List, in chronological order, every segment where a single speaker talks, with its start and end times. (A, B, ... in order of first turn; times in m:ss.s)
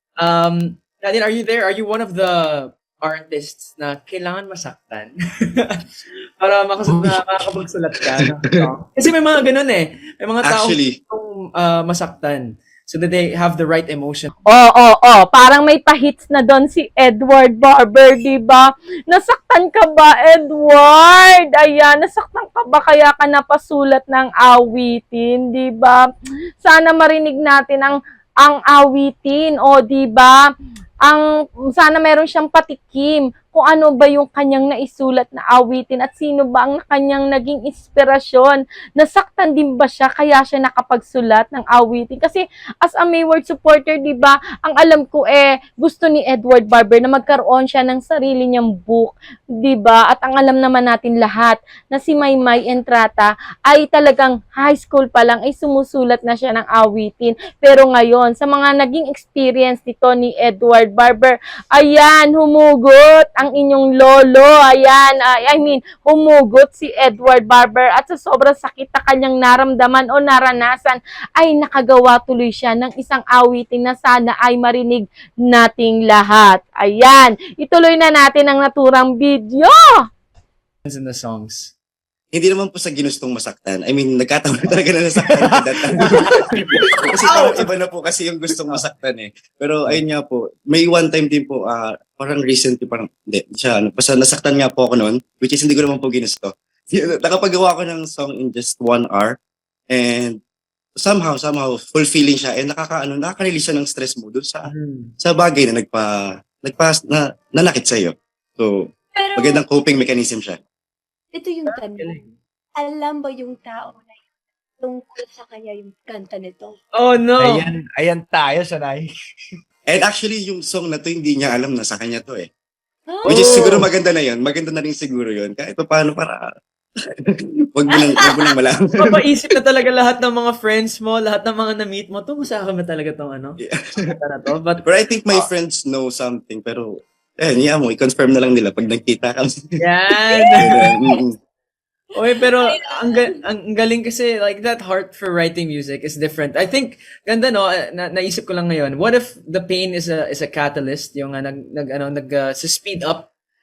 0:00.2-0:05.8 A
0:06.4-0:14.3 A
0:10.4-0:11.0 B
0:14.5-0:26.0 C
0:26.6-0:30.4 C
0:31.0-1:20.0 C
1:20.8-1:21.7 A
1:22.3-1:39.4 B
1:25.3-1:26.8 D
1:27.2-1:27.6 A
1:39.9-1:40.4 B
1:41.0-1:48.8 B
1:44.6-1:45.1 A
1:49.1-1:49.6 E
1:49.4-1:50.6 B
1:51.3-1:54.2 E
1:51.7-1:52.2 A
1:54.8-1:56.8 E
1:56.9-1:57.7 A
1:57.4-1:59.1 D
1:59.9-2:02.5 B
2:03.1-2:03.8 E
2:03.2-2:03.8 A
2:03.2-2:06.4 B
2:07.2-2:08.9 B
2:09.0-2:15.5 A
2:13.6-2:14.1 B
2:14.8-2:19.5 B
2:19.8-2:20.9 A
2:20.4-2:21.2 E
2:20.6-2:21.4 B
2:22.1-2:33.3 A
2:22.4-2:23.4 E